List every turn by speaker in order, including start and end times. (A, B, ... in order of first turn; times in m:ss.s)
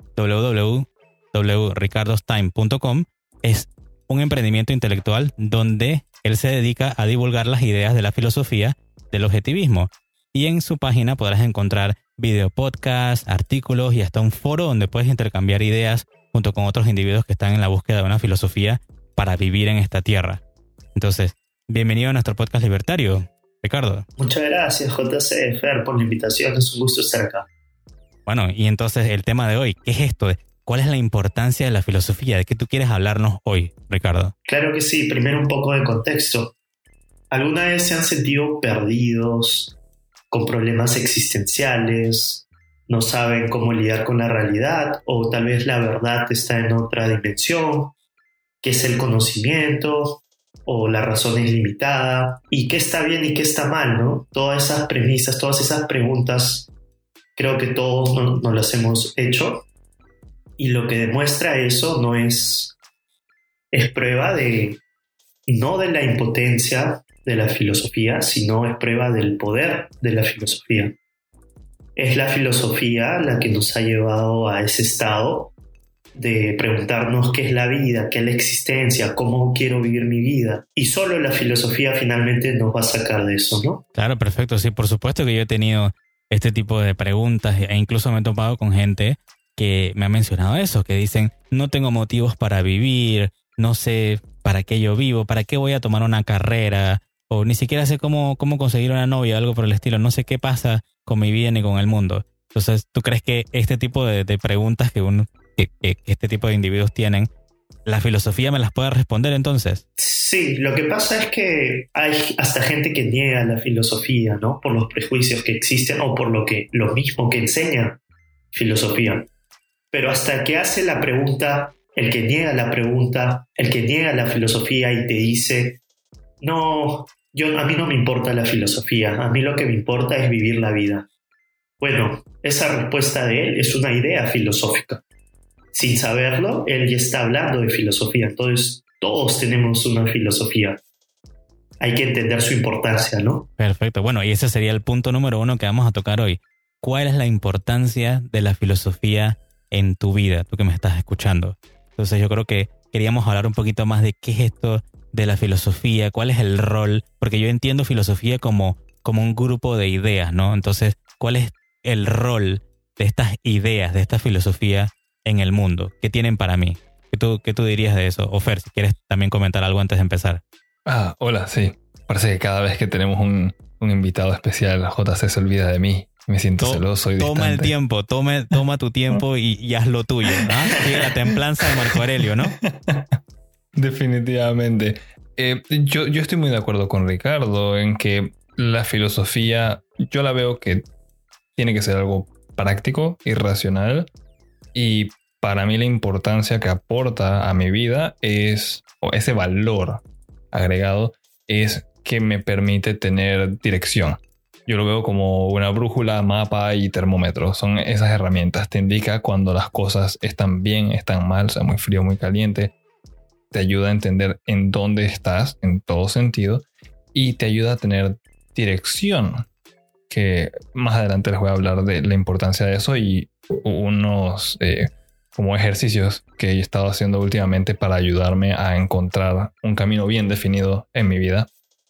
0:00.2-0:20.4 A
0:21.0-0:24.0 A
0:24.2-0:27.5 B
0:28.3-0:34.3 A
0:34.5-0:36.5 B
0:37.3-0:39.8 B
0:40.3-0:47.9 B
0:48.6-0:56.7 B
0:57.4-0:59.7 B
1:00.6-1:02.8 B
1:03.7-1:04.8 B
1:05.5-1:11.0 B
1:12.0-1:15.5 B
1:16.1-1:23.8 B
1:24.0-1:47.3 A
1:47.9-1:49.8 A
1:50.0-1:58.0 B
1:58.5-1:59.3 B
1:59.9-2:05.8 B
2:06.4-2:11.1 B
2:11.8-2:15.0 B
2:15.7-2:20.8 B
2:21.8-2:23.5 B
2:23.6-2:50.4 A
2:50.9-2:57.7 C
2:56.6-3:02.6 A
3:00.3-3:03.2 C
3:03.8-3:10.8 C
3:11.6-3:14.1 C
3:14.7-3:32.7 C
3:33.5-3:39.5 C
3:40.1-3:51.5 C